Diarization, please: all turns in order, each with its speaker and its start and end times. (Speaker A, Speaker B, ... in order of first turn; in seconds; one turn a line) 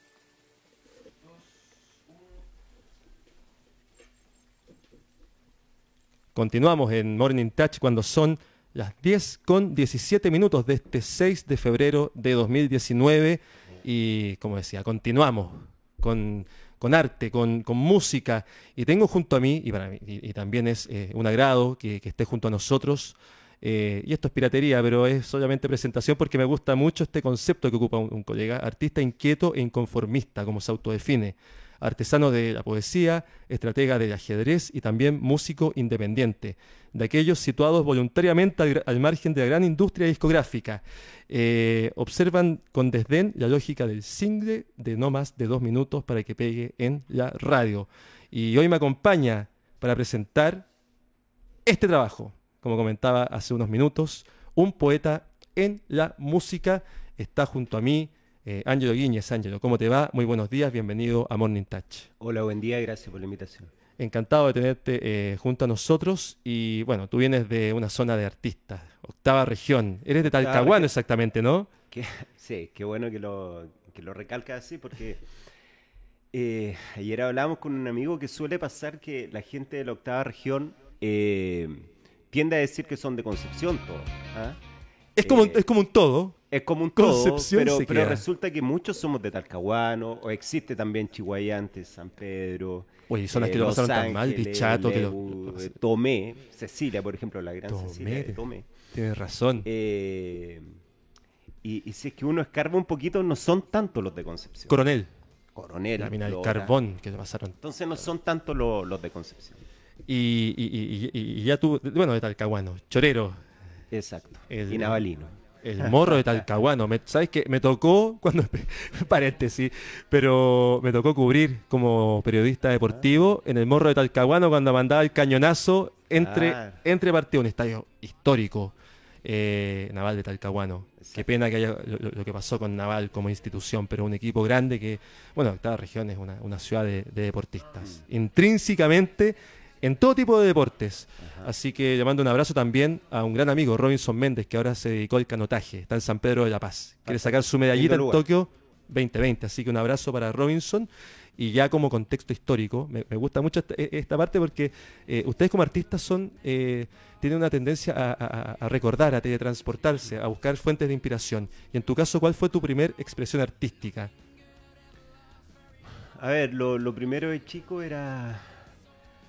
Speaker A: 6.3-50.7
Speaker A: 51.6-62.1
Speaker B: 62.2-63.7
Speaker A: 64.0-71.7
Speaker B: 70.4-70.9
Speaker B: 71.9-75.2
Speaker B: 76.3-84.6
Speaker A: 85.2-86.4
Speaker B: 85.2-85.6
Speaker B: 86.5-98.7
Speaker A: 87.0-88.2
Speaker A: 93.1-95.8
Speaker A: 97.7-99.7
Speaker B: 99.6-100.8
Speaker B: 101.6-104.8
Speaker A: 104.7-105.1
Speaker B: 105.5-106.7
Speaker A: 106.0-107.6
Speaker B: 107.6-109.6
Speaker A: 110.1-113.4
Speaker B: 113.9-116.3
Speaker A: 114.5-115.0
Speaker A: 115.6-164.1
Speaker B: 126.2-126.8
Speaker B: 147.1-148.2
Speaker B: 166.2-168.4